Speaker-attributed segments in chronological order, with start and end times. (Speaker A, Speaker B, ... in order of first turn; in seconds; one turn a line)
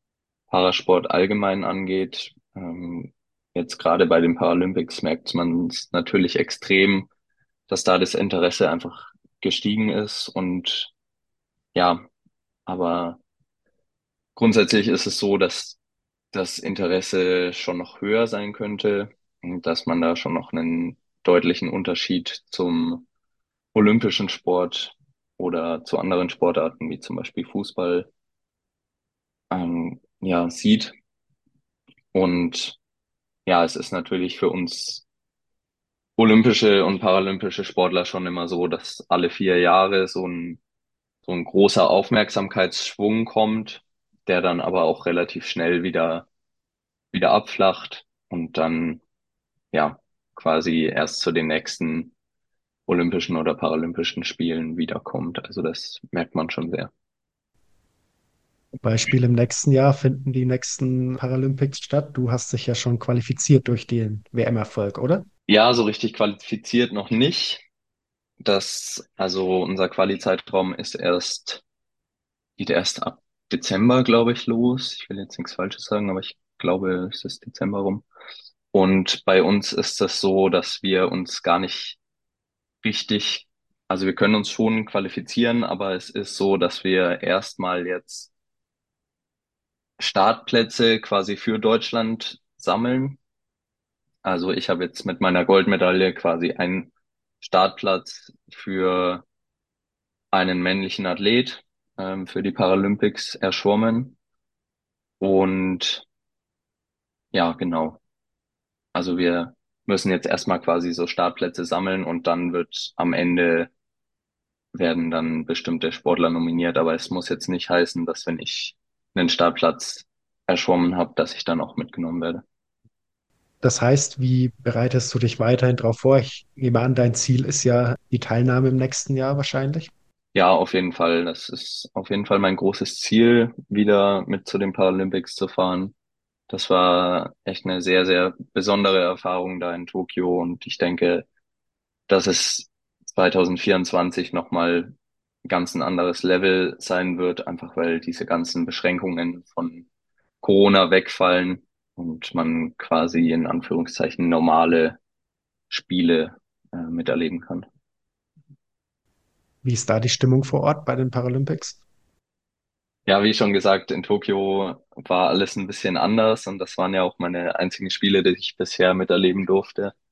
Speaker A: 0.5-7.1
Speaker A: 7.7-10.9
Speaker A: 11.8-12.1
Speaker A: 12.7-13.2
Speaker A: 14.4-15.8
Speaker A: 16.3-23.1
Speaker A: 23.7-28.1
Speaker A: 29.5-30.9
Speaker A: 32.1-32.8
Speaker A: 33.5-35.0
Speaker A: 36.2-40.6
Speaker A: 41.3-46.3
Speaker A: 47.1-49.0
Speaker A: 49.7-52.1
Speaker A: 52.9-56.9
Speaker B: 58.8-65.3
Speaker A: 65.5-67.7
Speaker A: 68.4-71.6
Speaker A: 72.6-78.0
Speaker A: 78.7-82.0
Speaker A: 82.8-88.3
Speaker A: 90.0-93.2
Speaker A: 94.2-99.2
Speaker A: 100.3-104.2
Speaker A: 105.2-106.1
Speaker A: 107.3-108.0
Speaker A: 109.0-113.7
Speaker A: 114.7-122.4
Speaker B: 123.6-129.9
Speaker A: 130.3-135.9
Speaker A: 136.5-141.3
Speaker A: 142.1-144.9
Speaker A: 145.4-149.9
Speaker A: 150.4-155.0
Speaker A: 155.7-157.7
Speaker B: 159.6-161.8
Speaker A: 163.1-169.9